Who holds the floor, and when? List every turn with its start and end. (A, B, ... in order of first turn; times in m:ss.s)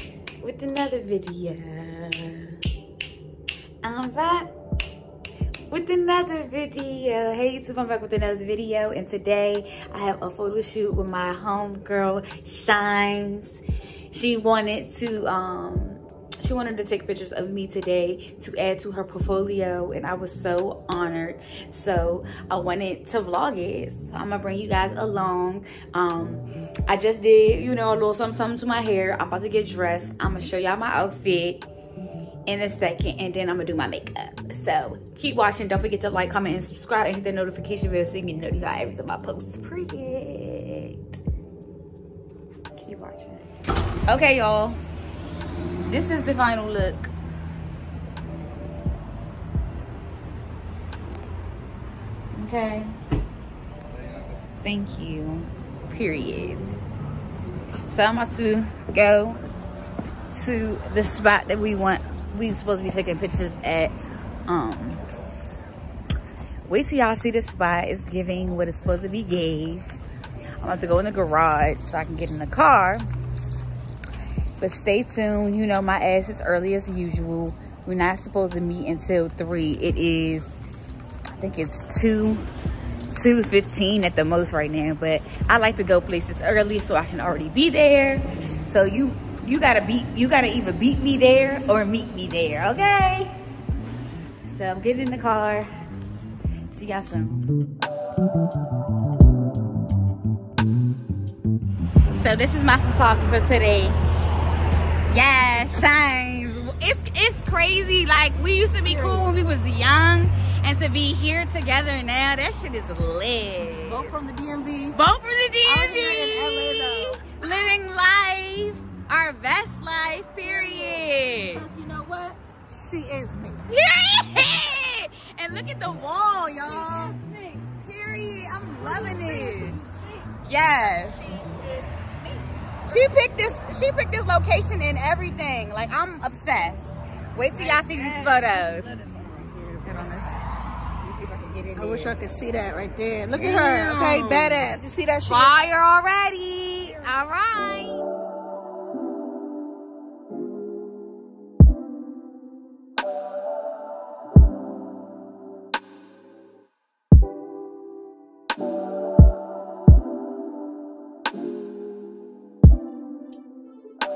0:00.4-0:02.6 A
0:03.8-0:04.5 A
0:05.7-0:31.6 A
0:32.4-0:41.2 A
0:42.7-0:43.4 A
0:44.1-0:44.8 A
0:45.9-0:47.1 A
0:52.3-0:52.9 A
0:54.6-0:56.8 A
0:57.9-0:59.4 A
1:00.3-1:03.9 A
1:04.5-1:05.0 A
1:06.6-1:10.0 A
1:10.6-1:13.0 A
1:14.6-1:20.6 A
1:21.3-1:22.4 A
1:23.1-1:33.3 A
1:34.5-1:35.7 A
1:36.7-1:37.5 A
1:42.1-1:44.0 A
1:45.1-1:54.2 A
1:48.9-1:49.2 B
1:53.8-1:55.0 B
1:54.9-2:01.7 A
1:55.6-1:57.3 B
2:00.5-2:03.6 B
2:03.7-2:09.8 A
2:06.6-2:07.7 B
2:08.6-2:10.3 B
2:10.4-2:11.3 A
2:11.2-2:12.4 B
2:12.8-2:19.0 A
2:17.5-2:20.1 B
2:19.8-2:20.4 A
2:21.0-2:22.2 A
2:21.8-2:25.6 B
2:23.3-2:28.0 A